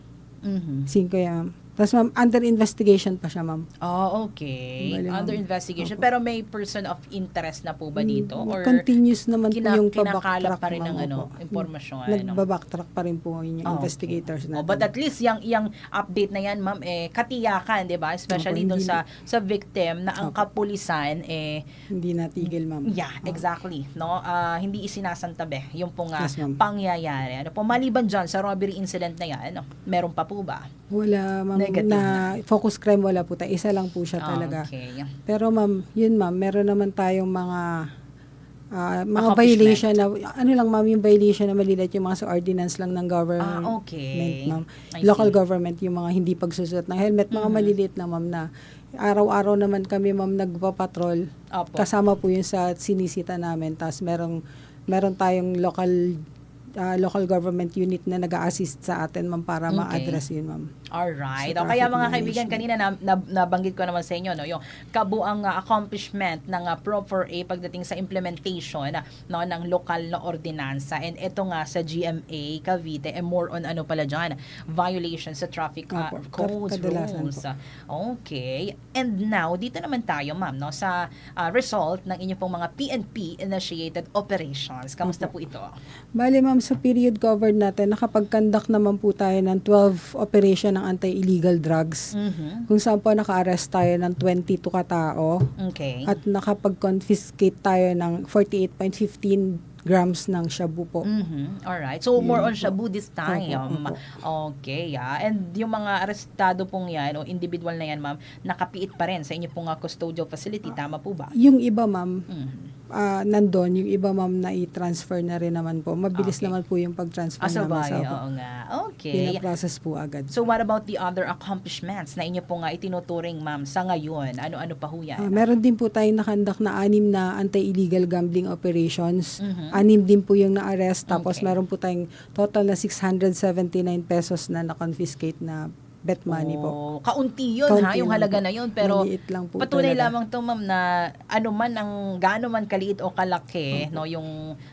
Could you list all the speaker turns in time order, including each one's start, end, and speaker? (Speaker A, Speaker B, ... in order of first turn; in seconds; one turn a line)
Speaker A: 0.4-0.9
Speaker B: 0.9-3.6
Speaker A: 3.8-8.8
Speaker B: 4.8-6.0
Speaker B: 8.0-14.9
Speaker A: 9.5-12.4
Speaker A: 13.7-21.6
Speaker B: 18.3-19.0
Speaker B: 21.9-23.4
Speaker A: 22.9-30.6
Speaker B: 26.2-26.6
Speaker B: 30.9-34.6
Speaker A: 31.6-32.3
Speaker A: 34.2-35.1
Speaker B: 35.3-37.6
Speaker B: 38.8-48.5
Speaker A: 39.2-39.9
Speaker A: 43.4-45.3
Speaker A: 47.3-47.7
Speaker B: 49.0-51.2
Speaker A: 51.5-51.9
Speaker B: 51.8-54.4
Speaker B: 54.9-55.9
Speaker B: 56.8-60.6
Speaker A: 59.7-60.2
Speaker A: 61.0-85.7
Speaker B: 61.4-62.6
Speaker B: 75.9-77.4
Speaker B: 85.0-85.3
Speaker B: 86.2-92.1
Speaker A: 92.2-92.6
Speaker B: 92.7-95.4
Speaker A: 95.6-96.0
Speaker B: 96.1-101.0
Speaker A: 101.1-111.3
Speaker B: 102.2-102.7
Speaker B: 103.2-104.0
Speaker B: 111.4-112.2
Speaker A: 112.3-112.7
Speaker B: 113.0-118.2
Speaker A: 116.2-116.5
Speaker A: 117.4-119.4
Speaker B: 119.1-120.3
Speaker A: 120.3-125.4
Speaker B: 125.2-136.7
Speaker A: 129.4-129.8
Speaker A: 131.1-131.5
Speaker A: 136.3-139.0
Speaker B: 137.7-140.1
Speaker A: 139.6-144.3
Speaker B: 143.7-144.0